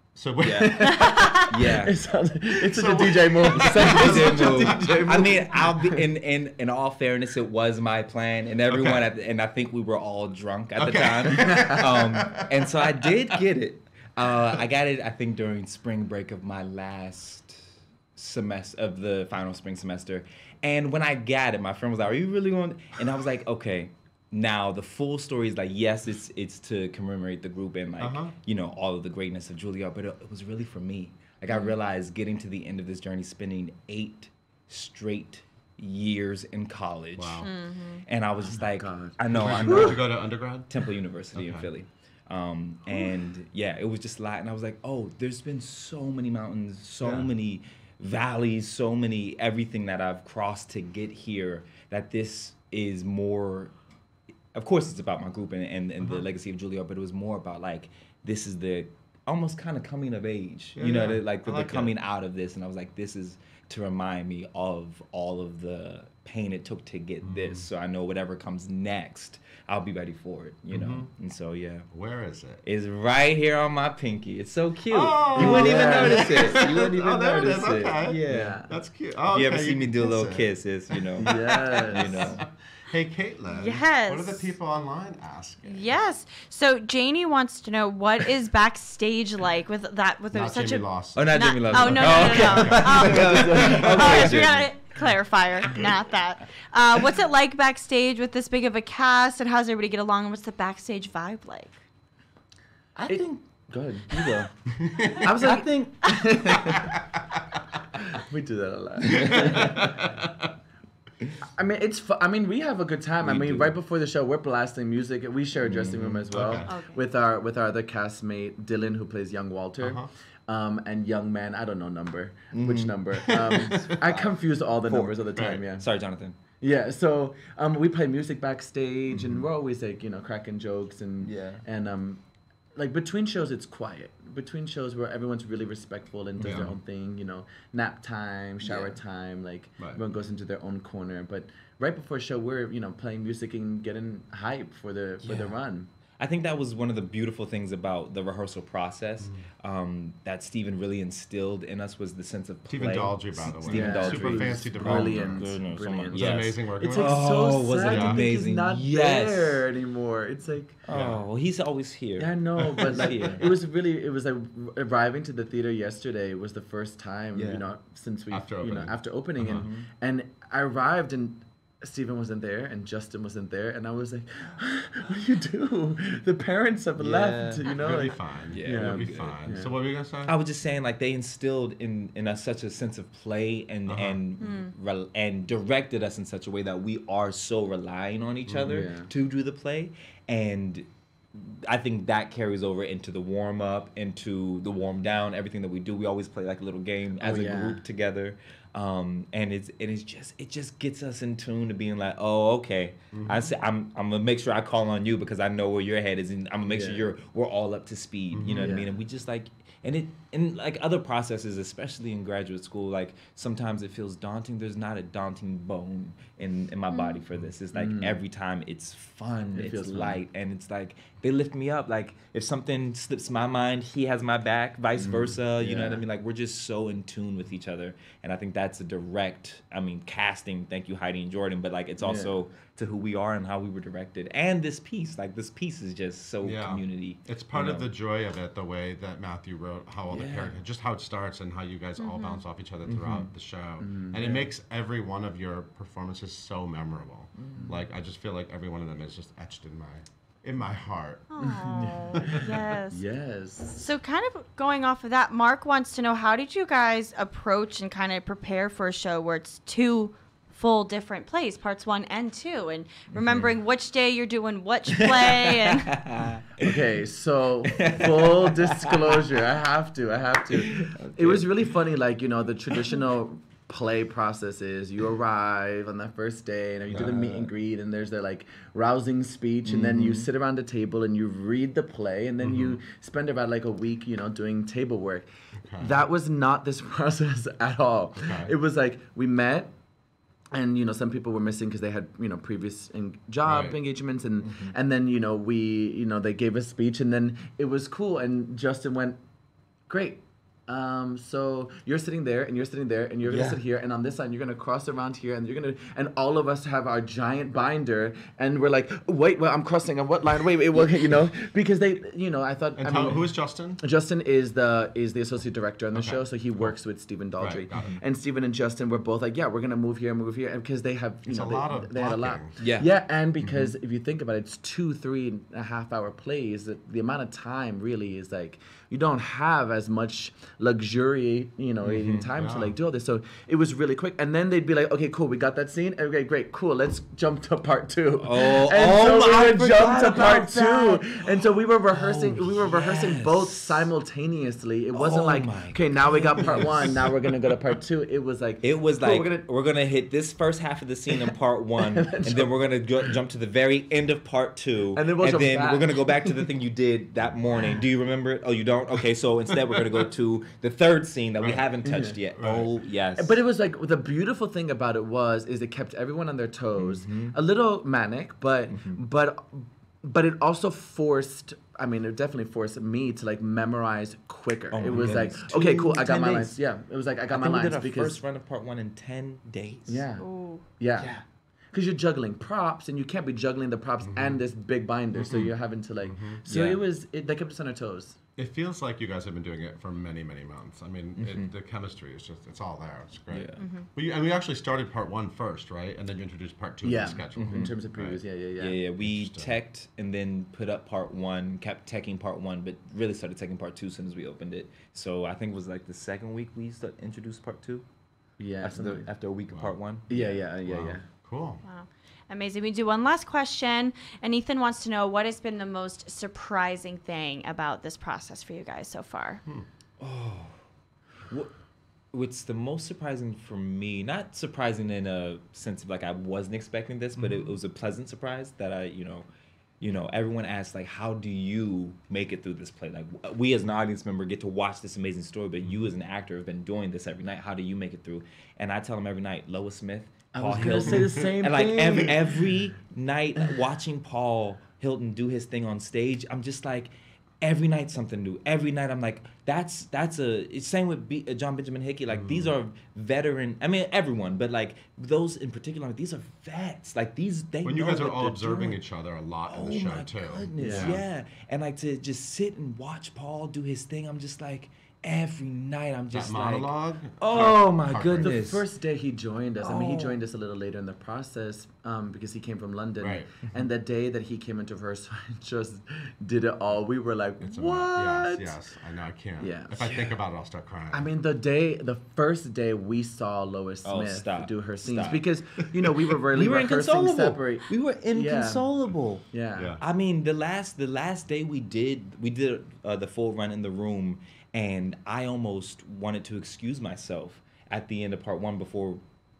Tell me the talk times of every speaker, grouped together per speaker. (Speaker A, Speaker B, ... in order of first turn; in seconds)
Speaker A: 0.1-1.1, 2.5-5.4, 8.7-9.1, 10.8-12.6, 28.0-28.3, 37.1-37.5, 39.3-40.8, 41.3-41.7, 47.0-47.3, 56.0-56.2, 60.8-61.9, 67.2-67.7, 70.7-71.1, 71.9-72.6, 74.9-85.9, 90.3-94.4, 104.8-105.2, 106.7-107.5, 109.2-110.3, 116.3-116.7, 119.8-120.1, 123.3-124.0, 125.3-125.6, 129.1-129.4, 136.4-136.8, 149.2-149.5, 152.7-155.6, 156.1-158.2, 160.9-161.2, 168.3-169.7, 177.7-180.4, 183.9-184.2, 188.5-188.8, 203.1-203.5, 208.3-208.8, 236.4-251.2, 252.2-252.6, 263.1-263.5, 276.9-277.1, 282.4-282.8, 285.6-285.9, 288.2-288.5, 293.4-293.8, 312.8-313.8, 315.9-316.7, 317.4-318.0, 321.2-322.5, 332.4-332.7, 361.4-361.7, 362.4-362.7, 374.9-375.2, 384.0-384.4, 385.1-385.5, 386.0-386.4, 388.4-398.2, 399.0-399.6, 410.6-411.6, 427.2-427.5, 440.9-441.2, 452.1-452.5, 457.6-461.0, 466.1-468.4, 473.0-473.3, 477.4-481.1, 489.6-489.8
Speaker B: 0.4-2.0, 3.5-37.5, 38.0-53.7, 54.5-71.9, 72.6-78.6, 79.3-82.4, 91.1-94.7, 103.0-103.4, 105.1-106.1, 109.2-109.8, 113.2-113.8, 115.6-116.3, 122.5-126.3, 131.2-131.6, 138.6-139.0, 145.2-145.6, 146.2-159.6, 160.8-163.6, 167.3-167.6, 169.4-169.9, 177.0-177.6, 178.5-179.6, 180.2-237.9, 240.1-240.6, 242.9-243.3, 247.4-247.7, 264.9-266.8, 267.6-269.3, 270.5-271.7, 276.9-277.5, 279.6-280.3, 294.4-294.7, 303.2-303.6, 322.6-322.9, 323.4-323.7, 331.8-332.3, 338.2-343.9, 344.9-347.1, 348.6-363.4, 366.8-367.4, 368.7-369.0, 374.7-376.6, 377.3-380.0, 386.5-386.8, 391.2-391.5, 393.3-393.6, 397.3-397.7, 398.6-407.8, 408.6-410.4, 420.0-420.6, 422.1-429.2, 429.8-458.8, 459.5-468.6, 469.6-470.2, 483.8-485.2, 486.1-489.3, 489.8-499.0
Speaker C: 0.5-6.0, 11.4-12.2, 38.5-40.0, 75.3-76.6, 78.3-78.7, 81.2-82.4, 92.8-94.4, 103.1-107.0, 108.0-110.2, 111.5-125.8, 126.6-132.2, 132.7-145.9, 153.6-160.8, 162.2-179.7, 188.6-189.1, 197.2-197.8, 206.7-207.1, 208.5-209.0, 217.7-218.2, 219.5-220.2, 225.0-226.0, 232.0-232.3, 243.8-244.4, 251.4-252.3, 252.9-253.9, 266.6-289.7, 290.5-299.2, 299.9-349.4, 351.8-352.5, 354.9-356.4, 361.8-362.1, 363.1-378.2, 379.9-380.2, 380.8-381.2, 381.7-388.2, 396.8-398.8, 408.4-409.1, 410.1-411.0, 440.3-442.6, 460.6-461.0, 468.2-478.5, 479.4-480.0, 480.9-488.7, 489.3-489.8
Speaker D: 1.0-1.4, 31.5-31.7, 37.4-38.0, 83.5-84.5, 85.7-101.8, 116.6-117.0, 184.4-184.7, 216.9-217.2, 242.0-242.4, 251.3-253.0, 253.8-266.0, 380.2-380.6, 393.6-393.9, 411.6-419.4